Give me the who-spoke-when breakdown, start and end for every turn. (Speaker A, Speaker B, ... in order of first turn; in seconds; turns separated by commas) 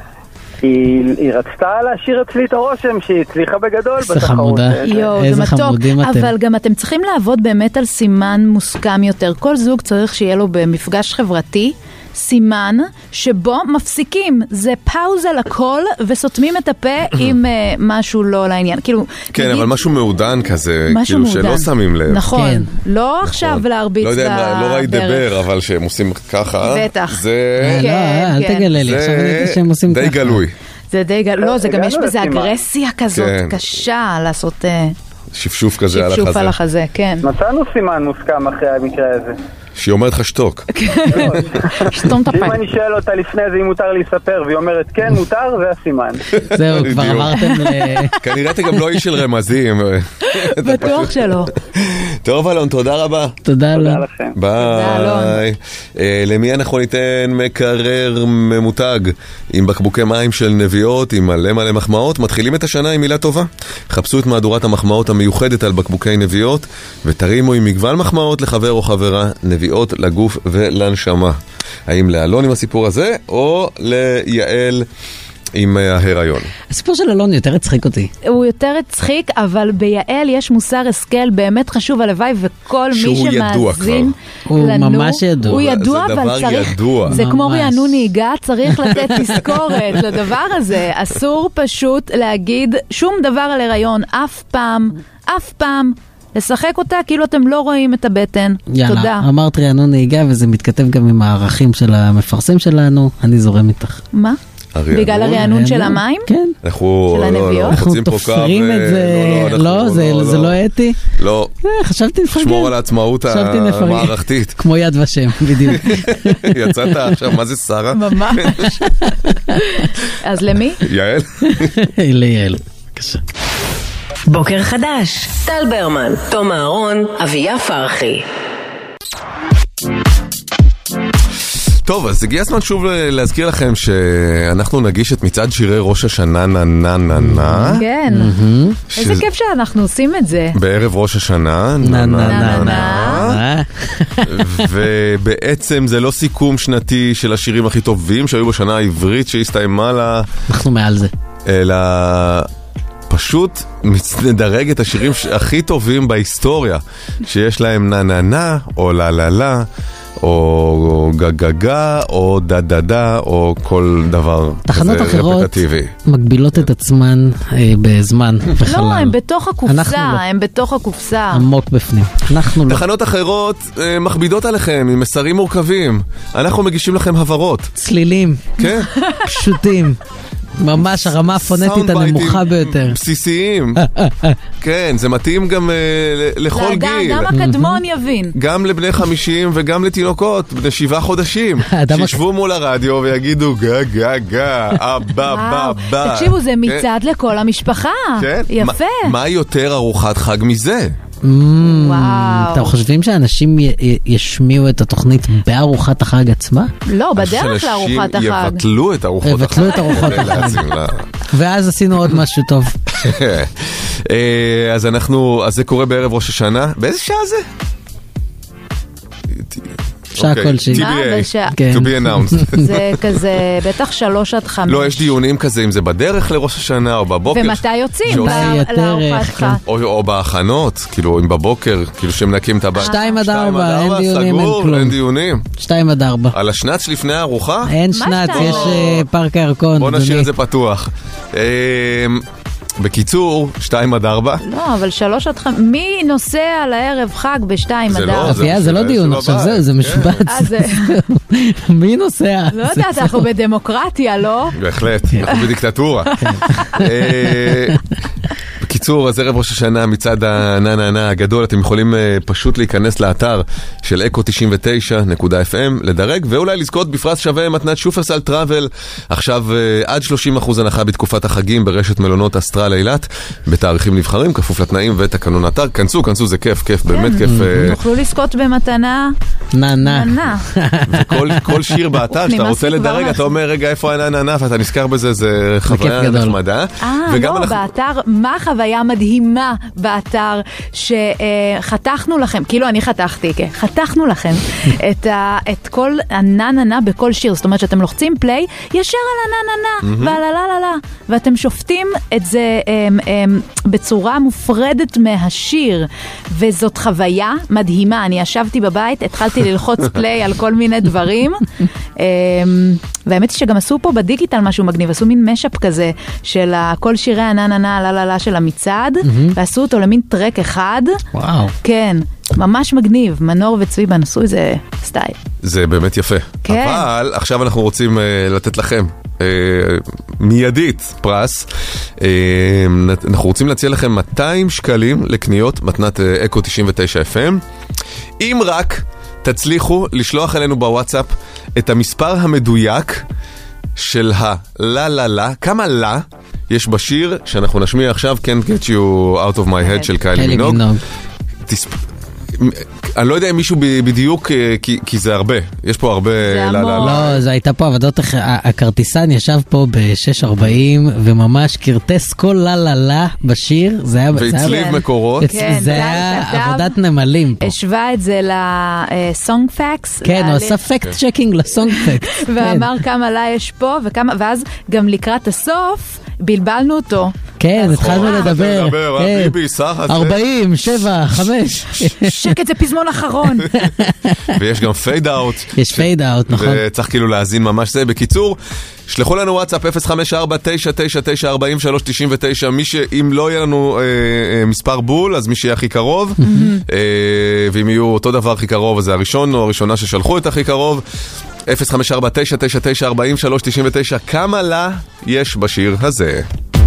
Speaker A: 0.6-5.1, Speaker B: 4.0-6.3, Speaker C: 4.8-19.8, Speaker D: 19.3-22.3, Speaker C: 20.9-25.3, Speaker B: 22.3-22.7, Speaker D: 23.2-27.8, Speaker C: 26.6-28.7, Speaker B: 27.6-30.4, Speaker D: 28.7-30.5, Speaker C: 30.9-34.9, Speaker A: 31.4-32.6, Speaker D: 33.1-33.6, Speaker D: 35.3-36.5, Speaker C: 35.9-37.2, Speaker A: 37.2-39.4, Speaker D: 39.8-40.7, Speaker C: 40.8-42.6, Speaker A: 41.1-46.2, Speaker B: 46.5-48.1, Speaker D: 46.7-47.5, Speaker C: 47.4-48.0, Speaker D: 48.2-53.4, Speaker C: 50.3-51.5, Speaker B: 53.4-54.0, Speaker A: 53.7-54.4, Speaker D: 54.4-74.9, Speaker C: 54.6-55.4, Speaker D: 75.5-76.5, Speaker B: 76.7-78.1, Speaker C: 78.2-99.2, Speaker D: 82.9-84.1, Speaker B: 84.5-85.6, Speaker D: 85.4-87.2, Speaker B: 87.1-88.0, Speaker B: 98.7-104.0, Speaker C: 104.1-104.4, Speaker D: 104.7-105.5, Speaker C: 104.9-106.3, Speaker B: 105.3-106.5, Speaker D: 106.6-110.6, Speaker C: 107.1-107.8, Speaker B: 107.7-111.0, Speaker D: 111.2-111.5, Speaker B: 111.7-112.7, Speaker D: 112.3-114.5, Speaker B: 113.2-116.9, Speaker D: 115.7-118.7, Speaker C: 117.9-118.8, Speaker B: 118.8-119.5, Speaker C: 119.8-120.8, Speaker D: 120.8-121.7, Speaker B: 121.5-123.2, Speaker E: 124.3-128.2, Speaker D: 131.8-137.8, Speaker B: 137.2-138.8, Speaker C: 137.7-138.3, Speaker D: 138.9-139.2, Speaker C: 138.9-140.6, Speaker D: 140.5-143.4, Speaker B: 141.8-144.6, Speaker C: 142.3-143.3, Speaker D: 144.3-150.3, Speaker B: 150.5-151.1, Speaker D: 151.4-152.5, Speaker D: 153.1-159.7, Speaker D: 160.2-165.9, Speaker B: 164.7-169.1, Speaker C: 168.7-171.4, Speaker B: 169.7-170.2, Speaker B: 171.3-172.8, Speaker D: 172.7-177.7, Speaker B: 177.8-178.5, Speaker D: 178.6-178.9, Speaker B: 179.2-180.0, Speaker B: 180.6-183.0, Speaker D: 180.8-183.8, Speaker B: 183.8-184.3, Speaker D: 184.6-187.3, Speaker C: 186.5-188.3, Speaker B: 187.3-187.8, Speaker D: 188.3-196.9, Speaker B: 191.7-192.2, Speaker C: 195.2-199.1, Speaker D: 198.2-201.0, Speaker B: 201.2-206.7, Speaker C: 201.6-202.7, Speaker C: 206.9-208.6, Speaker D: 207.2-211.1, Speaker B: 209.2-210.6, Speaker C: 209.6-210.2, Speaker B: 211.3-212.8, Speaker D: 213.0-217.4, Speaker D: 219.3-222.9, Speaker B: 220.2-220.9, Speaker C: 220.7-221.6, Speaker B: 221.5-222.6, Speaker C: 222.6-225.1, Speaker D: 224.7-228.6, Speaker C: 227.3-229.6, Speaker B: 228.1-229.6, Speaker D: 229.6-235.4, Speaker C: 232.8-233.2, Speaker B: 232.8-234.9, Speaker B: 235.6-236.3, Speaker D: 236.3-237.7, Speaker B: 237.7-240.3, Speaker C: 237.9-239.0, Speaker D: 238.3-239.0, Speaker D: 239.8-242.2, Speaker D: 242.8-244.4, Speaker C: 244.4-248.5, Speaker D: 247.9-250.3, Speaker B: 248.2-253.2, Speaker C: 250.3-250.9, Speaker C: 252.5-254.5, Speaker D: 254.5-256.1, Speaker B: 256.2-257.7, Speaker D: 256.7-257.8, Speaker D: 258.6-277.8, Speaker C: 276.9-279.1, Speaker B: 277.2-277.7, Speaker B: 279.5-281.6, Speaker C: 279.8-280.4, Speaker D: 280.9-287.6, Speaker C: 282.1-283.3, Speaker B: 285.7-286.4, Speaker C: 286.8-311.4, Speaker D: 299.8-300.2, Speaker C: 312.0-321.0, Speaker B: 319.0-319.4, Speaker B: 321.1-321.5, Speaker C: 321.6-325.2, Speaker D: 325.4-331.5, Speaker C: 326.4-326.9, Speaker D: 332.0-337.4, Speaker D: 338.2-343.0, Speaker D: 343.8-350.6, Speaker C: 349.6-349.9, Speaker B: 350.1-350.8, Speaker D: 351.5-351.8, Speaker D: 352.3-357.2, Speaker C: 356.2-357.2, Speaker B: 356.8-367.5, Speaker D: 364.1-365.8, Speaker C: 364.4-366.7, Speaker C: 367.4-370.6, Speaker B: 370.0-372.7, Speaker C: 371.7-378.3, Speaker B: 377.4-379.4, Speaker D: 377.6-380.2, Speaker B: 379.9-382.3, Speaker C: 382.0-383.5, Speaker B: 383.5-384.3, Speaker D: 384.3-400.8, Speaker B: 385.6-386.6, Speaker B: 396.2-396.5, Speaker C: 396.2-396.6, Speaker D: 401.5-406.3